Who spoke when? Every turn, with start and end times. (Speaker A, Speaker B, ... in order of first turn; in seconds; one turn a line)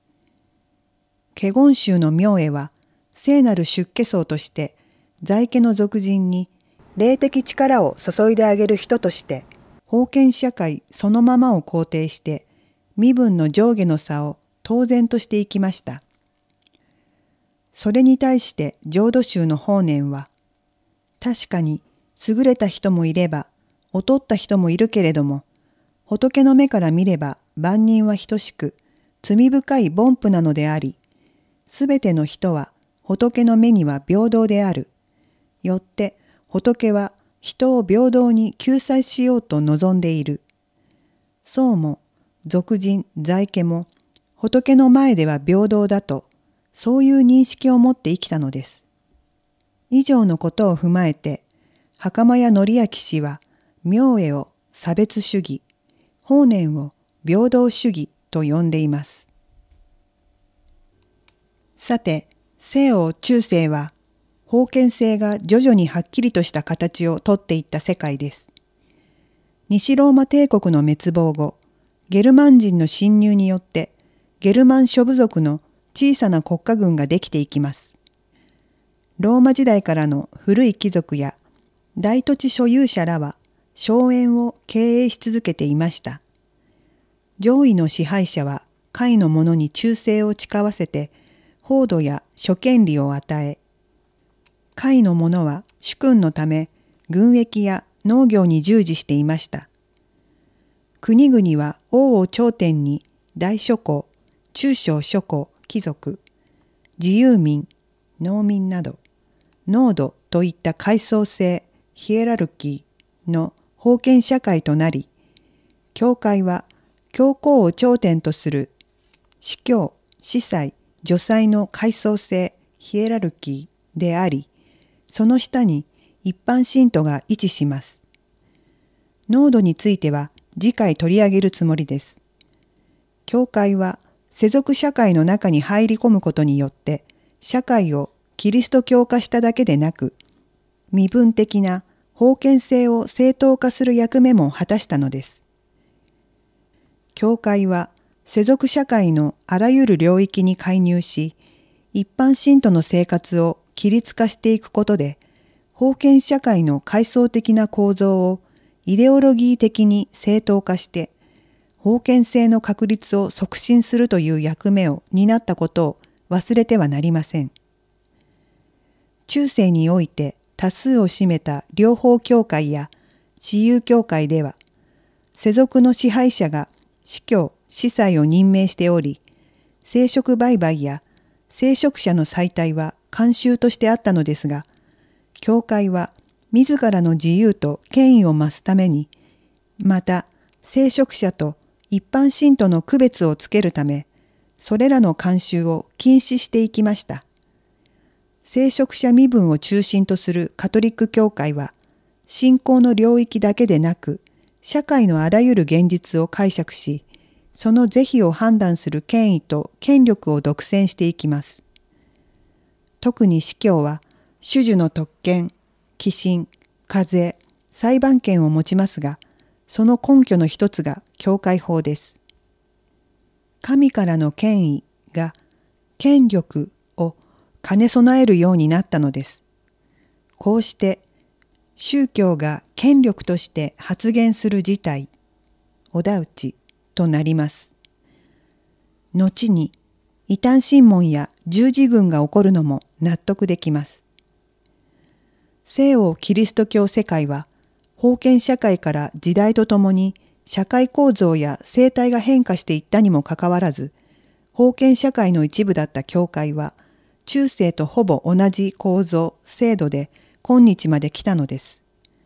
Speaker A: 1.4-16.0
Speaker A: 17.7-20.3
Speaker A: 21.2-25.4
Speaker A: 26.1-31.0
Speaker A: 31.7-34.9
Speaker A: 35.6-40.4
Speaker A: 41.4-48.8
Speaker A: 49.9-51.4
Speaker A: 52.0-55.6
Speaker A: 56.2-59.3
Speaker A: 61.8-63.9
Speaker A: 64.5-68.5
Speaker A: 69.7-71.6
Speaker A: 72.1-77.9
Speaker A: 79.2-81.4
Speaker A: 82.0-86.2
Speaker A: 87.4-91.1
Speaker A: 91.6-93.6
Speaker A: 94.8-99.7
Speaker A: 101.0-106.2
Speaker A: 107.0-109.0
Speaker A: 109.7-115.1
Speaker A: 115.9-118.7
Speaker A: 119.4-124.5
Speaker A: 125.1-128.0
Speaker A: 129.3-132.2
Speaker A: 133.3-140.2
Speaker A: 140.9-145.4
Speaker A: 147.2-151.4
Speaker A: 151.9-155.2
Speaker A: 155.8-161.1
Speaker A: 161.8-167.5
Speaker A: 169.3-174.6
Speaker A: 175.3-179.2
Speaker A: 179.8-184.7
Speaker A: 185.4-189.1
Speaker A: 189.8-194.1
Speaker A: 194.6-197.2
Speaker A: 198.4-201.7
Speaker A: 202.3-211.6
Speaker A: 213.0-222.2
Speaker A: 223.6-225.4
Speaker A: 226.0-229.4
Speaker A: 230.4-231.0
Speaker A: 231.8-235.1
Speaker A: 235.9-237.7
Speaker A: 239.1-239.7
Speaker A: 240.3-244.0
Speaker A: 245.7-253.9
Speaker A: 254.5-261.8